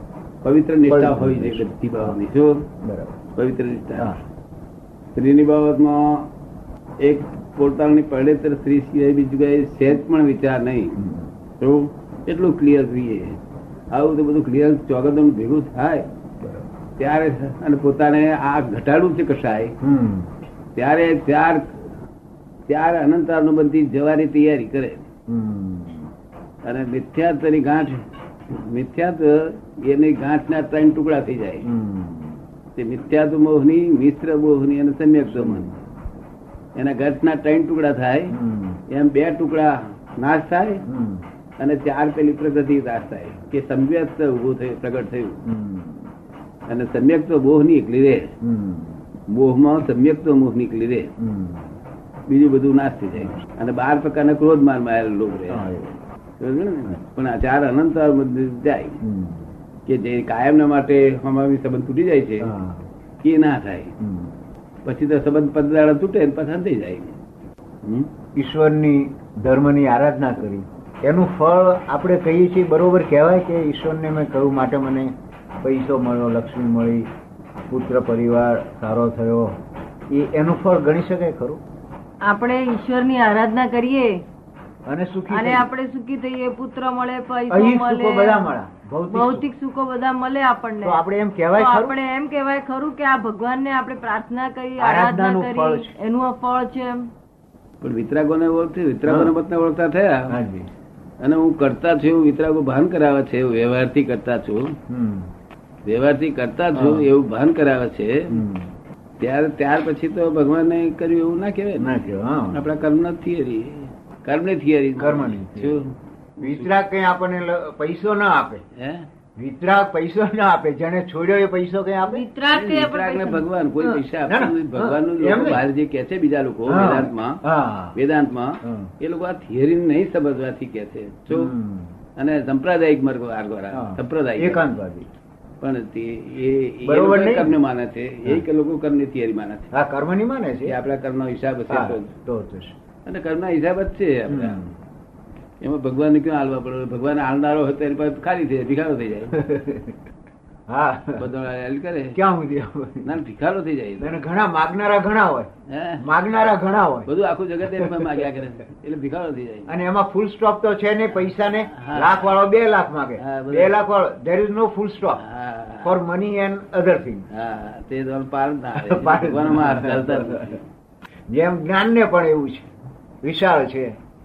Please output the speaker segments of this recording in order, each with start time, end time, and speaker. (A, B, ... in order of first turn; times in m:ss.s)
0:00.4-0:02.7 A
0:00.9-0:02.2 B
0:02.8-0:03.1 B
0:03.3-0:04.1 A
0:05.1-0:06.3 A
0:07.0-0:11.0 A
0:11.0-0:11.3 B
0:11.6-0:13.4 A
0:13.9-0:16.1 A
0:17.0-0:19.8 A
0:19.8-0:20.3 B
0:20.7-0:21.8 A
0:22.7-0:25.1 A
0:25.3-0:26.1 B
0:26.6-0:31.7 A
0:31.6-0:32.4 B
0:32.8-0:35.7 A
0:35.3-0:35.8 B
0:36.7-0:38.3 A
0:38.3-0:38.8 B
0:38.9-0:40.8 A
0:40.9-0:41.2 B
0:41.6-0:45.4 A
0:45.4-0:46.1 B
0:46.7-0:48.3 A
0:48.4-0:49.0 B
0:49.3-0:51.1 A
0:51.2-0:51.7 B
0:52.3-0:55.7 A
0:55.5-0:56.0 B
0:56.4-0:59.0 A
0:59.0-0:59.5 B
0:59.9-1:02.5 A
1:02.4-1:02.8 B
1:03.2-1:03.9 A
1:04.0-1:04.4 B
1:04.8-1:07.2 A
1:07.8-1:08.1 A
1:08.4-1:15.1 B
1:15.6-1:17.1 B
1:17.7-1:19.5 B
1:20.1-1:21.6 B
1:22.2-1:24.2 C
1:24.9-1:25.7 B
1:25.3-1:28.5 C
1:27.5-1:29.4 B
1:29.1-1:31.0 C
1:30.8-1:32.0 B
1:31.5-1:37.1 C
1:34.8-1:35.9 B
1:37.8-1:40.4 A
1:39.0-1:39.3 B
1:40.3-1:40.7 B
1:41.2-1:44.8 A
1:44.9-1:45.3 B
1:45.8-1:48.4 A
1:46.7-1:47.1 B
1:48.3-1:48.7 B
1:49.2-1:56.7 A
1:51.8-1:52.7 B
1:55.0-1:55.8 B
1:56.4-1:58.6 B
1:58.7-1:59.1 A
1:59.4-2:02.2 B
2:02.0-2:03.5 C
2:02.5-2:07.4 A
2:03.8-2:05.6 B
2:06.6-2:08.0 B
2:07.9-2:11.5 A
2:08.6-2:08.9 B
2:11.3-2:11.9 B
2:12.2-2:14.6 A
2:13.7-2:15.1 B
2:15.6-2:19.7 A
2:16.8-2:17.6 B
2:19.7-2:20.7 B
2:20.6-2:22.1 A
2:21.7-2:22.7 B
2:23.0-2:24.7 A
2:24.3-2:24.7 B
2:25.6-2:29.4 A
2:29.3-2:30.0 B
2:30.7-2:31.2 B
2:31.2-2:32.2 A
2:32.1-2:33.1 B
2:33.0-2:34.2 A
2:34.0-2:35.5 B
2:35.7-2:36.0 A
2:36.0-2:37.1 B
2:37.1-2:39.7 A
2:37.6-2:38.3 B
2:39.7-2:45.2 B
2:41.4-2:42.3 A
2:43.2-2:43.8 A
2:45.1-2:46.0 A
2:45.8-2:47.3 B
2:47.3-2:50.7 A
2:48.8-2:50.6 B
2:51.3-2:52.7 B
2:53.2-2:53.9 B